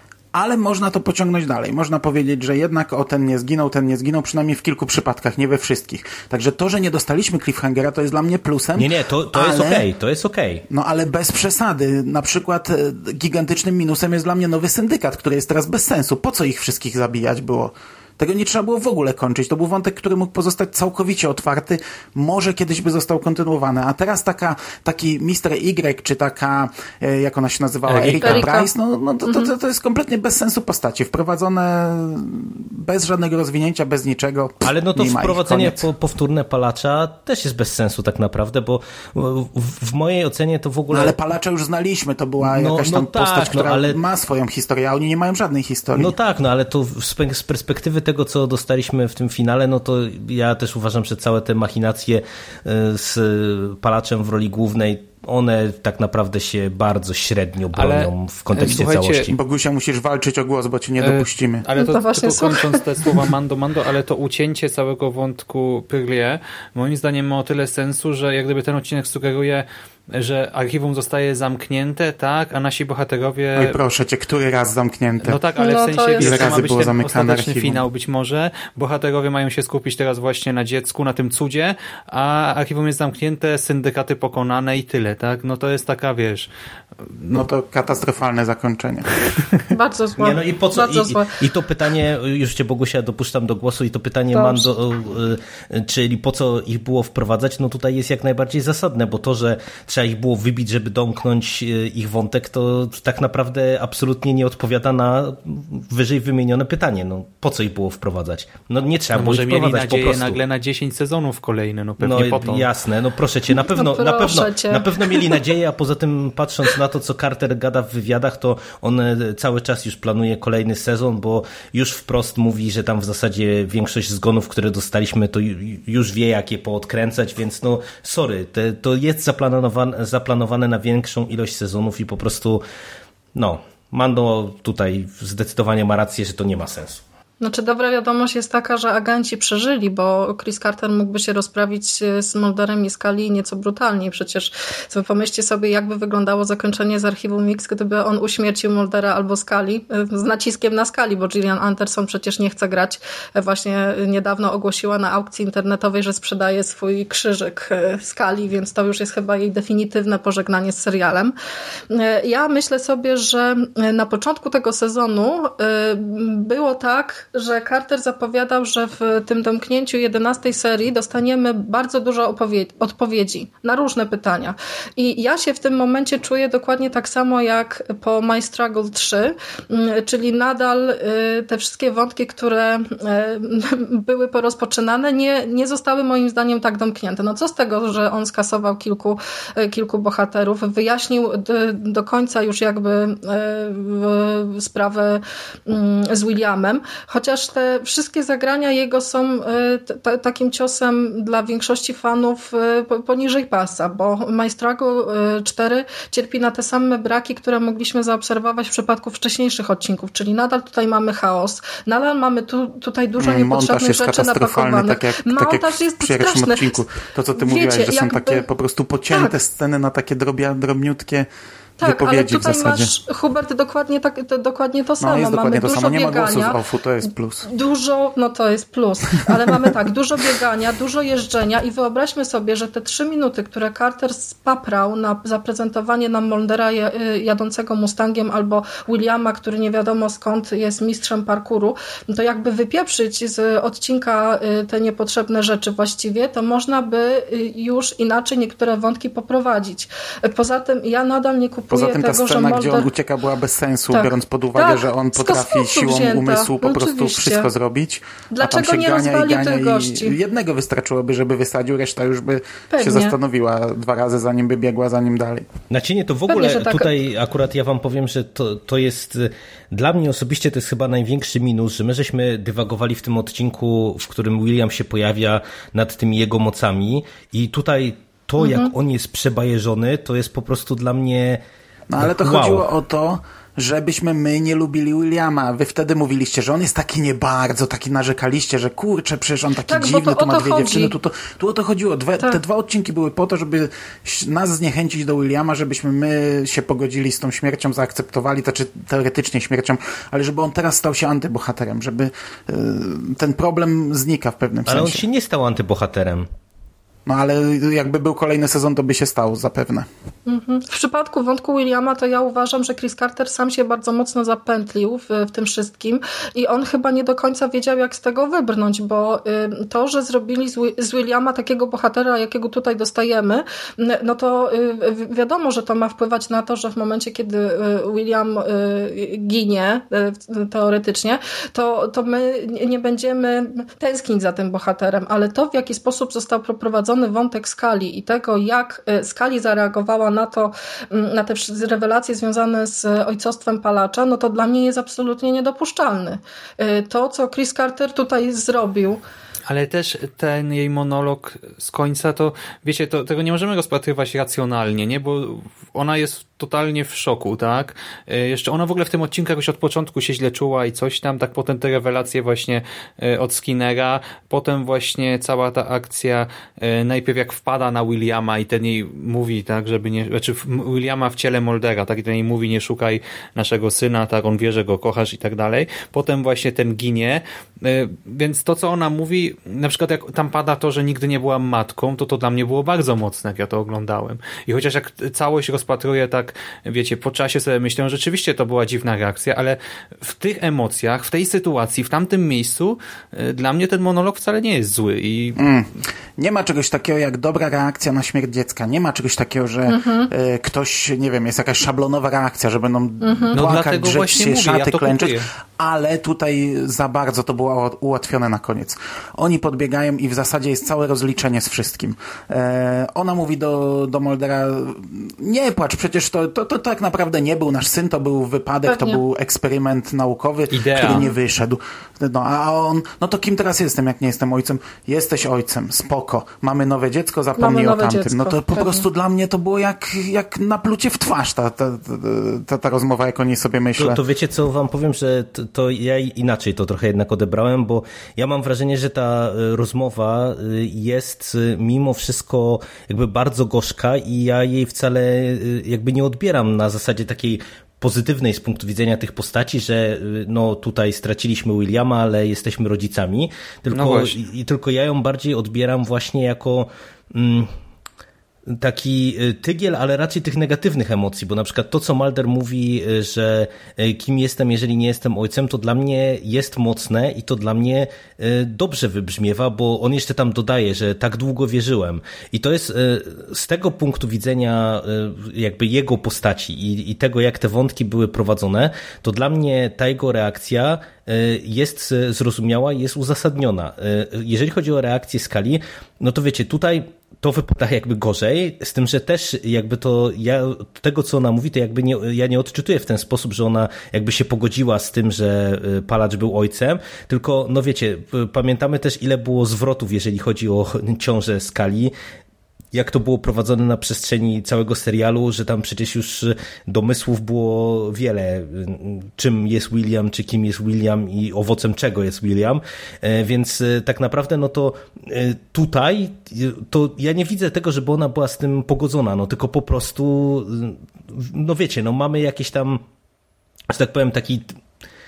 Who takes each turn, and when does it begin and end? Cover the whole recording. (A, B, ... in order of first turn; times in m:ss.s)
0:00.3-0:09.9 A
0:08.8-0:10.6 B
0:10.7-0:35.9 A
0:27.9-0:28.5 B
0:28.0-0:28.7 C
0:29.2-0:29.5 C
0:34.6-0:41.1 B
0:40.9-0:46.1 A
0:42.4-0:44.0 B
0:45.9-0:59.3 B
0:57.7-0:59.3 D
0:59.3-1:01.6 A
1:01.0-1:13.8 D
1:01.8-1:02.8 C
1:13.6-1:15.4 A
1:15.2-1:26.5 D
1:15.6-1:16.5 C
1:16.2-1:17.8 A
1:27.0-1:27.4 D
1:27.3-1:29.3 A
1:29.7-1:31.3 C
1:30.2-1:50.4 B
1:34.3-1:34.7 C
1:49.1-1:52.6 D
1:52.0-2:12.6 B
1:53.7-1:55.3 C
2:13.3-2:17.0 B
2:17.4-2:41.3 C
2:41.9-3:36.8 C
3:33.2-3:41.3 A
3:37.4-3:38.4 C
3:39.1-3:39.4 C
3:41.8-3:46.6 C
3:41.8-3:42.9 A
3:45.0-3:47.5 A
3:47.5-4:12.9 C
4:11.7-4:25.5 A
4:13.9-4:17.5 C
4:18.3-4:20.2 C
4:22.7-4:23.2 C
4:25.7-4:41.4 B
4:26.3-4:26.9 C
4:38.4-4:38.7 C
4:41.9-5:05.0 A
4:42.0-4:42.6 B
4:49.6-4:50.9 C
5:04.7-5:06.3 B
5:07.0-5:09.9 A
5:10.2-5:49.0 C
5:49.5-6:35.4 D
6:35.4-7:14.0 A
6:39.7-6:40.1 C
6:43.0-6:43.4 C
6:43.3-6:45.3 D
6:58.6-6:59.0 C
7:00.5-7:01.1 D
7:07.4-7:08.8 C
7:13.8-7:37.5 B
7:33.7-7:34.2 D
7:38.5-8:21.9 B
8:22.7-8:42.8 B
8:43.7-8:44.5 B